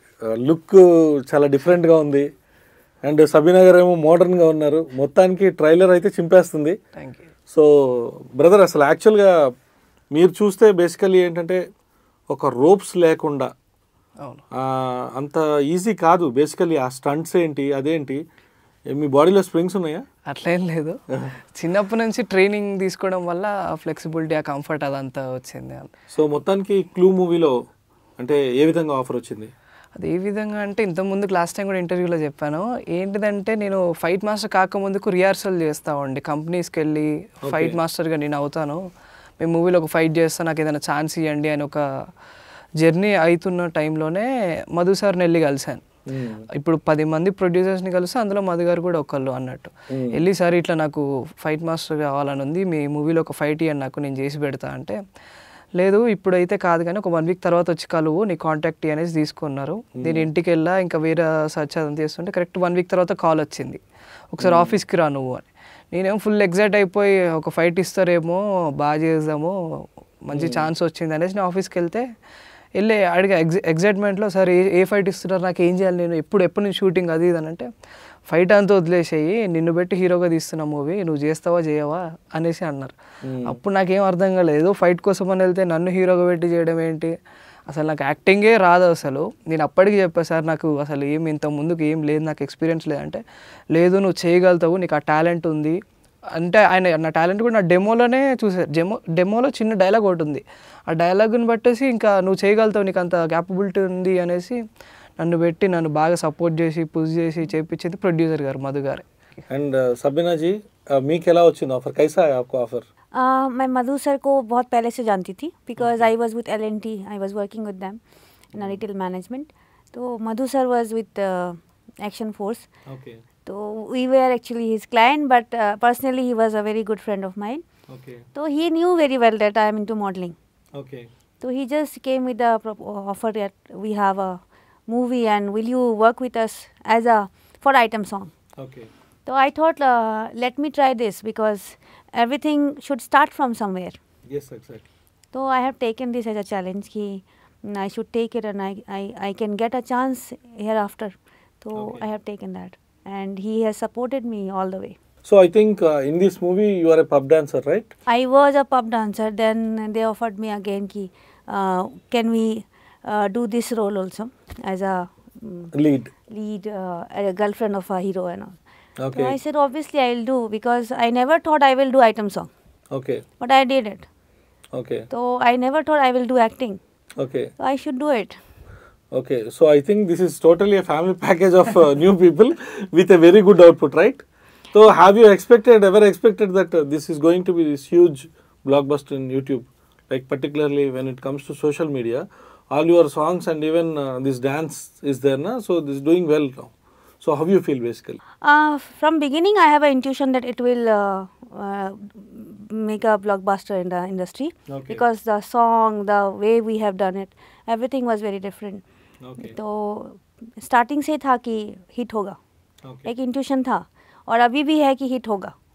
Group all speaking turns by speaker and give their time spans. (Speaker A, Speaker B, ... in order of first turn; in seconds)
Speaker A: 0.4-2.2, 3.0-6.8, 7.5-9.3, 10.1-11.6, 12.3-13.5, 14.5-18.2, 18.9-20.0, 26.1-27.5, 28.2-29.5, 37.4-37.8, 46.1-46.4, 49.9-50.2, 60.0-60.2, 64.4-64.8, 70.3-70.7, 83.2-83.6, 109.5-112.8, 115.8-116.1, 122.9-123.2, 127.9-128.2, 130.7-131.1, 138.6-138.9, 144.3-144.8, 151.7-152.0, 155.2-157.9, 165.7-166.1, 169.0-169.3, 172.9-173.2, 174.7-175.1, 177.2-177.5, 179.1-198.2, 204.7-205.0, 209.2-209.5
Speaker B: 6.9-7.3, 20.3-21.0, 21.5-25.9, 29.9-38.8, 39.4-41.8, 42.8-45.8, 46.6-55.0, 55.8-63.8, 64.3-69.5, 70.2-72.0, 72.8-77.7, 78.3-82.9, 83.5-87.1, 87.7-93.2, 93.7-95.8, 96.4-104.5, 105.2-109.0
Speaker C: 113.1-118.0, 118.5-122.7, 123.4-127.6, 128.3-130.3, 131.4-138.3, 139.2-144.0, 145.3-154.9, 158.1-165.7, 166.3-168.6, 169.1-172.5, 173.4-174.1, 175.1-176.8, 177.6-178.4, 198.4-208.8, 209.4-212.4, 213.0-215.5